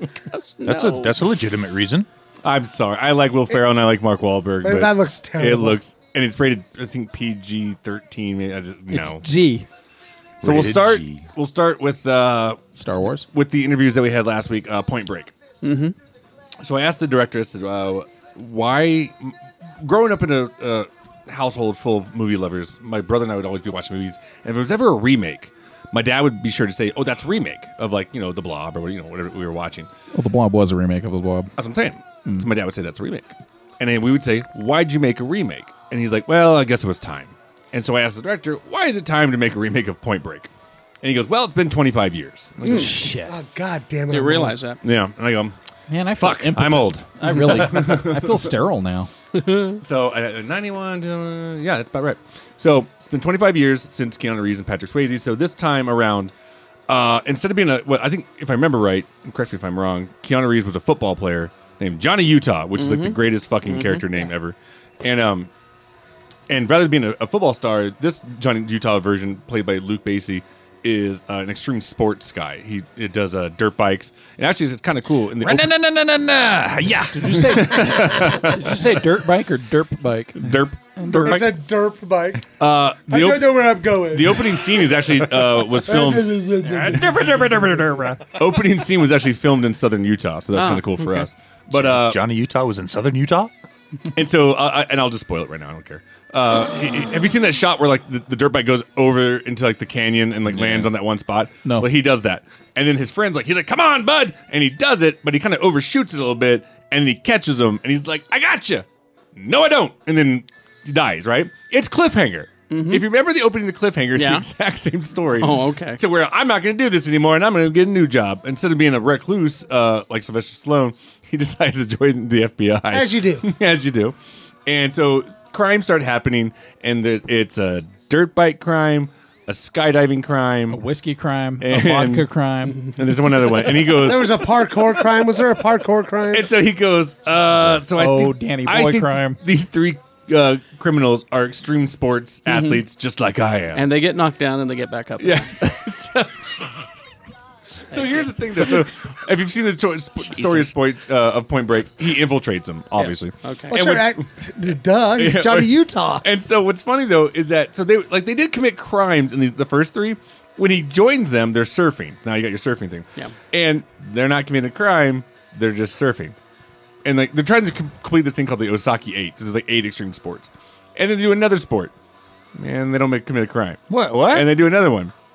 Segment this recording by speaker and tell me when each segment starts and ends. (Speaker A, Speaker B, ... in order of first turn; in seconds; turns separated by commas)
Speaker A: 0.3-1.2, Speaker B: 0.6-2.1, Speaker C: 2.4-9.2, Speaker D: 4.6-5.8, Speaker E: 8.9-9.7, Speaker C: 10.4-12.6, Speaker B: 10.4-11.3, Speaker E: 12.8-13.3, Speaker C: 13.3-15.3, Speaker A: 15.6-15.9, Speaker C: 16.6-29.9, Speaker E: 30.1-31.5, Speaker C: 31.6-40.5, Speaker C: 41.0-43.0, Speaker A: 42.6-43.0, Speaker E: 42.7-43.4, Speaker D: 43.3-44.6, Speaker A: 44.1-44.8, Speaker C: 44.8-45.5, Speaker E: 45.9-49.1, Speaker C: 46.2-48.5, Speaker A: 49.4-49.8, Speaker C: 49.8-56.3, Speaker C: 56.9-65.5, Speaker A: 62.8-64.1, Speaker C: 66.5-75.7, Speaker B: 75.4-77.8, Speaker E: 77.1-80.4, Speaker C: 77.4-78.7, Speaker C: 80.4-81.5, Speaker E: 81.0-81.5, Speaker D: 81.1-82.5, Speaker C: 82.6-87.0, Speaker D: 83.1-84.6, Speaker D: 85.8-87.6, Speaker E: 86.7-88.2, Speaker C: 88.3-92.2, Speaker A: 90.5-91.3, Speaker B: 91.7-93.5, Speaker C: 94.2-124.2, Speaker B: 100.5-100.9, Speaker A: 112.7-113.0, Speaker A: 114.2-114.5, Speaker A: 115.4-116.0, Speaker D: 122.9-123.5, Speaker C: 124.7-130.8, Speaker E: 130.7-132.8, Speaker C: 131.6-132.3, Speaker C: 132.9-134.7, Speaker D: 133.9-136.5, Speaker C: 136.3-143.9, Speaker E: 138.0-139.4, Speaker A: 142.5-142.8, Speaker A: 143.8-145.5, Speaker C: 145.2-146.7, Speaker C: 147.9-154.2, Speaker A: 150.3-150.7, Speaker A: 153.0-153.8, Speaker D: 153.7-156.2, Speaker C: 155.2-166.3, Speaker C: 167.0-171.9, Speaker C: 172.6-175.1, Speaker B: 173.9-174.5